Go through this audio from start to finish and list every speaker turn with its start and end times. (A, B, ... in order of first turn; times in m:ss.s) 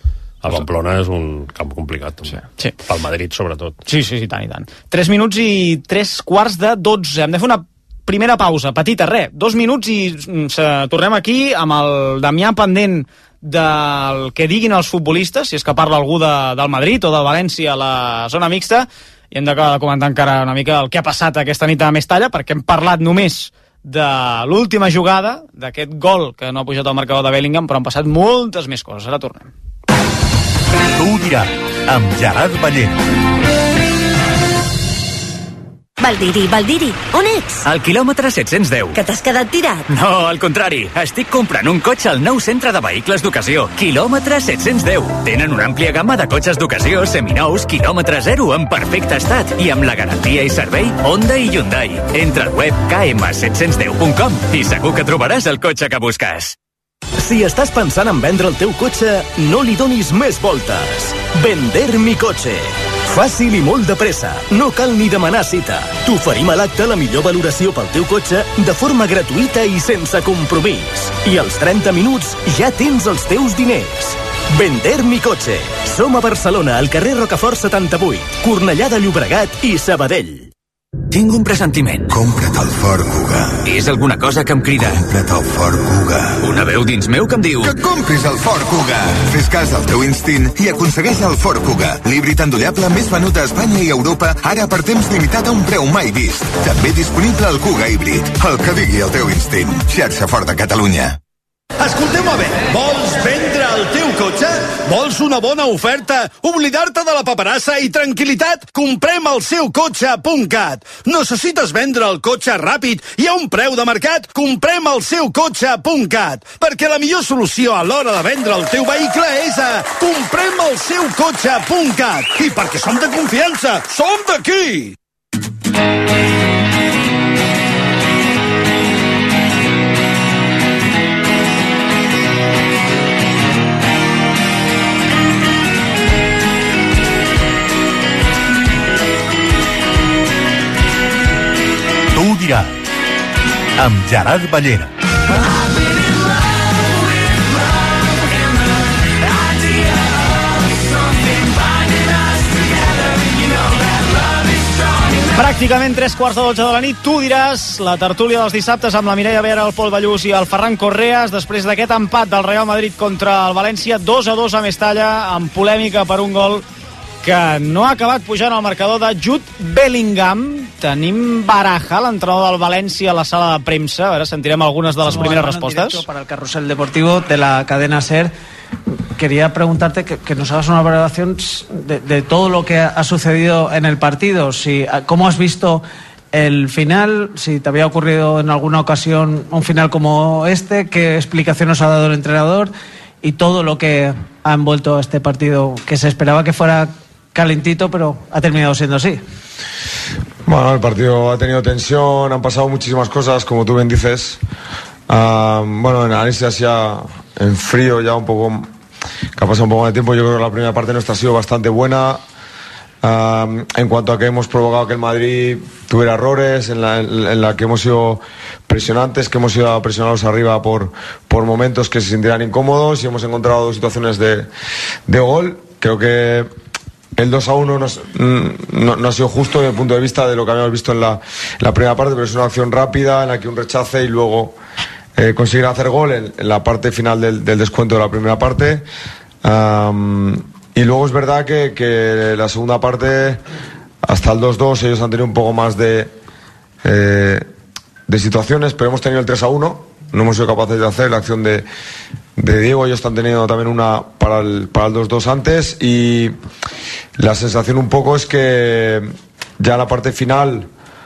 0:00.4-0:03.8 A
0:02.3-0:02.8 B
0:03.8-0:29.5 B
0:31.0-0:32.9 C
0:36.0-0:37.6 D
0:37.6-0:39.0 E
0:38.9-0:39.8 D
0:39.9-0:56.5 E
0:57.2-1:20.4 F
1:21.1-1:22.2 E
1:22.1-1:23.6 G
1:23.6-1:25.0 E
1:24.8-1:26.4 G
1:26.4-1:27.7 E
1:27.6-1:41.2 G
1:41.8-2:04.9 H
2:22.1-2:22.7 C
2:23.8-2:24.9 C
2:35.3-2:46.6 B
2:47.2-2:56.0 B
2:55.1-2:58.3 I
2:59.2-3:12.7 I
3:13.2-3:19.2 I
3:20.4-3:24.4 J
3:25.1-3:28.7 J
3:29.4-3:32.2 J
3:33.0-3:44.5 J
3:45.1-3:46.5 J
3:47.2-3:54.5 J
3:55.2-3:58.8 J
3:59.4-4:03.4 J
4:04.0-4:06.1 J
4:06.8-4:07.4 J
4:08.1-4:11.6 J
4:12.4-4:16.3 J
4:17.2-4:19.1 J
4:19.6-4:20.7 J